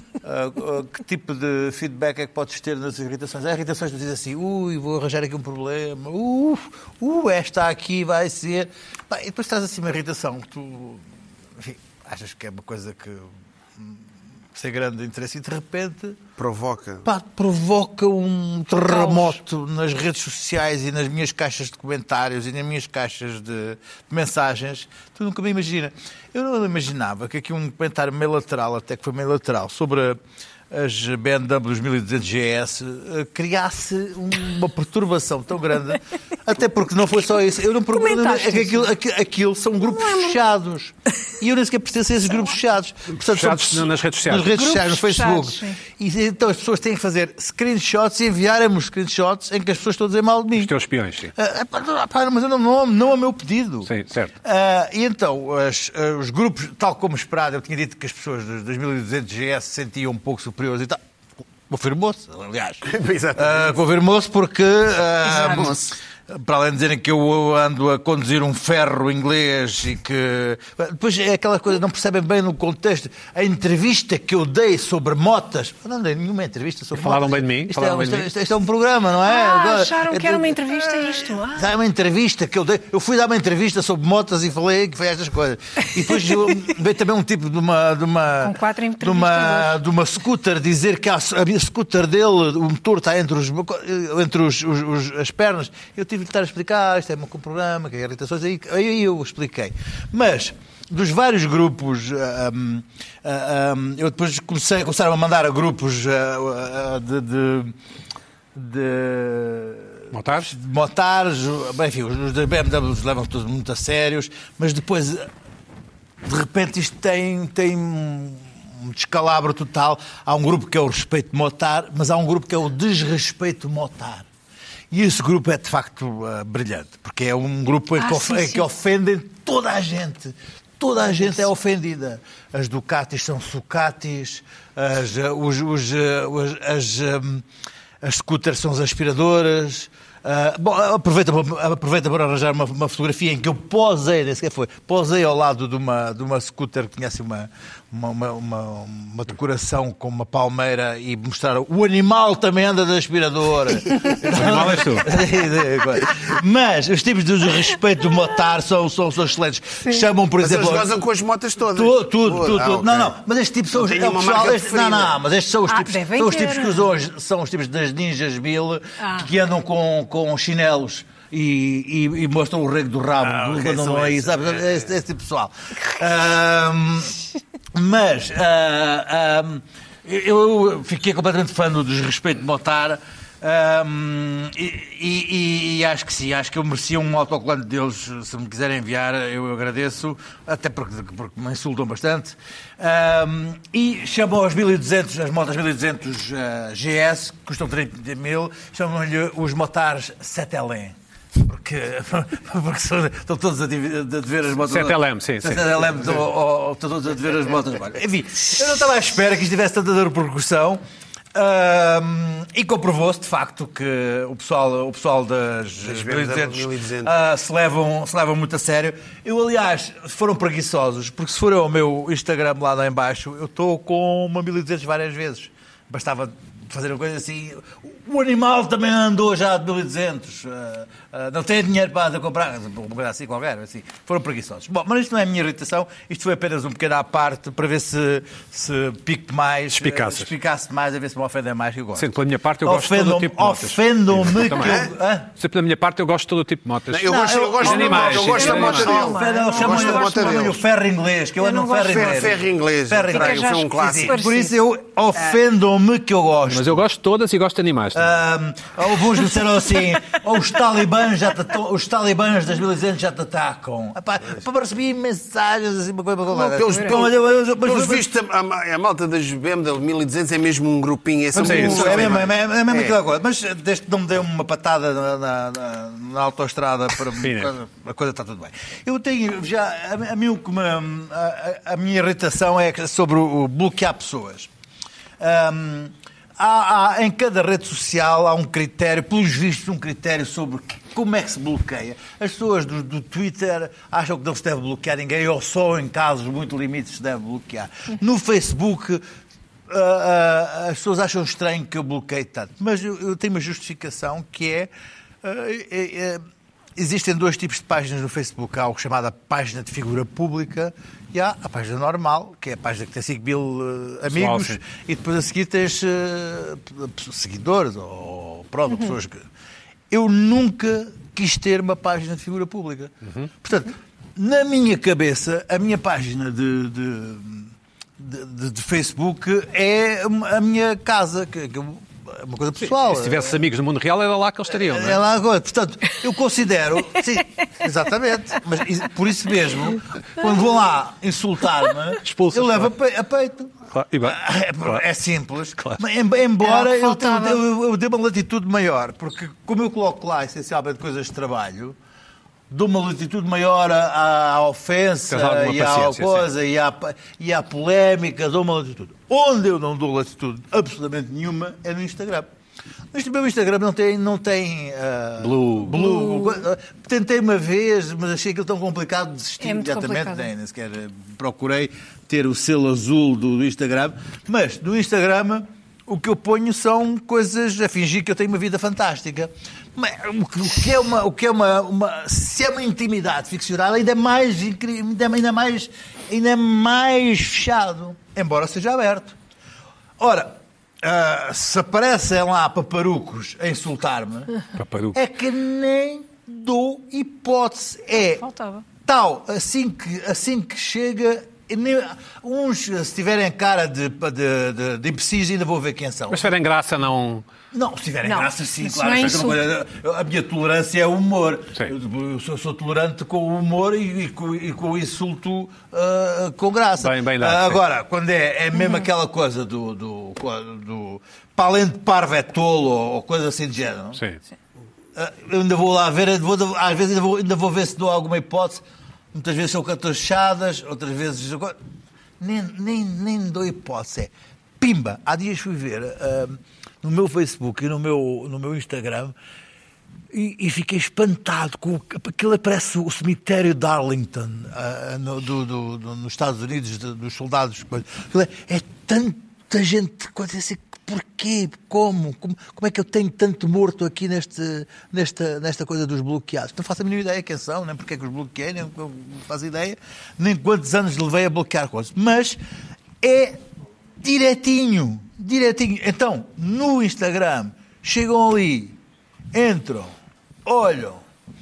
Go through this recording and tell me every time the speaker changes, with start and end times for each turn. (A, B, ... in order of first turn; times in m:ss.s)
0:00.2-0:11.0 A
0:11.6-0:14.0 A
0:14.5-0:16.2 A
0:16.4-0:17.0 B
0:17.0-0:50.7 A
0:18.9-0:19.4 C
0:37.9-0:38.9 C
0:39.8-0:40.4 C
0:43.2-0:44.5 D
0:44.5-0:45.8 C
0:50.6-0:51.3 D
0:51.3-0:53.9 A
0:53.8-0:54.3 D
0:54.4-1:01.0 A
1:01.7-1:47.8 A
1:02.8-1:03.7 B
1:05.3-1:05.7 C
1:05.4-1:05.7 B
1:16.9-1:18.3 D
1:19.2-1:21.6 C
1:28.4-1:29.8 C
1:48.5-1:55.3 A
1:50.1-1:50.5 D
1:56.2-2:04.3 A
2:04.9-2:17.4 A
2:08.0-2:08.6 C
2:18.0-2:41.0 A
2:34.2-2:35.1 D
2:40.4-2:43.1 B
2:41.7-2:57.1 A
2:43.7-2:45.2 B
2:45.7-2:46.8 C
2:49.0-2:49.3 C
2:53.2-2:54.9 B
2:57.7-3:30.8 A
3:24.6-3:25.9 D
3:31.3-4:02.1 A
3:35.8-3:37.1 B
3:59.7-4:00.3 D
4:02.0-4:04.8 D
4:02.6-4:05.3 A
4:04.5-4:04.9 B
4:05.4-4:08.9 D
4:06.9-4:10.6 B
4:07.0-4:16.8 A
4:07.7-4:10.4 C
4:11.4-4:12.3 C
4:11.8-4:14.2 B
4:13.1-4:14.5 C
4:16.5-4:18.1 D
4:17.9-4:28.1 A
4:26.3-4:32.9 B
4:26.4-4:26.9 C
4:31.3-4:44.5 A
4:31.3-4:32.2 D
4:37.2-4:37.5 D
4:45.2-4:59.0 A
4:59.7-5:04.7 A
5:05.2-5:06.2 A
5:06.8-5:19.3 A
5:14.1-5:14.6 D
5:19.9-5:33.4 A
5:32.7-5:35.0 D
5:34.5-5:51.8 A
5:42.0-5:42.7 D
5:43.7-5:44.8 D
5:46.4-5:47.4 C
5:52.5-6:02.3 A
5:55.1-5:56.3 D
6:02.9-6:29.2 A
6:05.2-6:05.8 D
6:09.4-6:10.3 C
6:30.0-6:34.3 A
6:34.6-6:35.0 D
6:34.9-6:38.2 A
6:38.0-6:38.6 C
6:38.8-6:46.3 A
6:46.1-6:47.2 D
6:47.5-7:04.0 A
6:48.0-6:49.4 C
6:56.8-6:57.6 D
6:58.6-6:58.8 C
7:05.0-7:11.6 A
7:12.2-7:19.2 A
7:20.1-7:42.4 A
7:43.0-7:43.4 A
7:44.0-7:48.8 A
7:49.3-7:49.9 A
7:50.4-7:51.0 A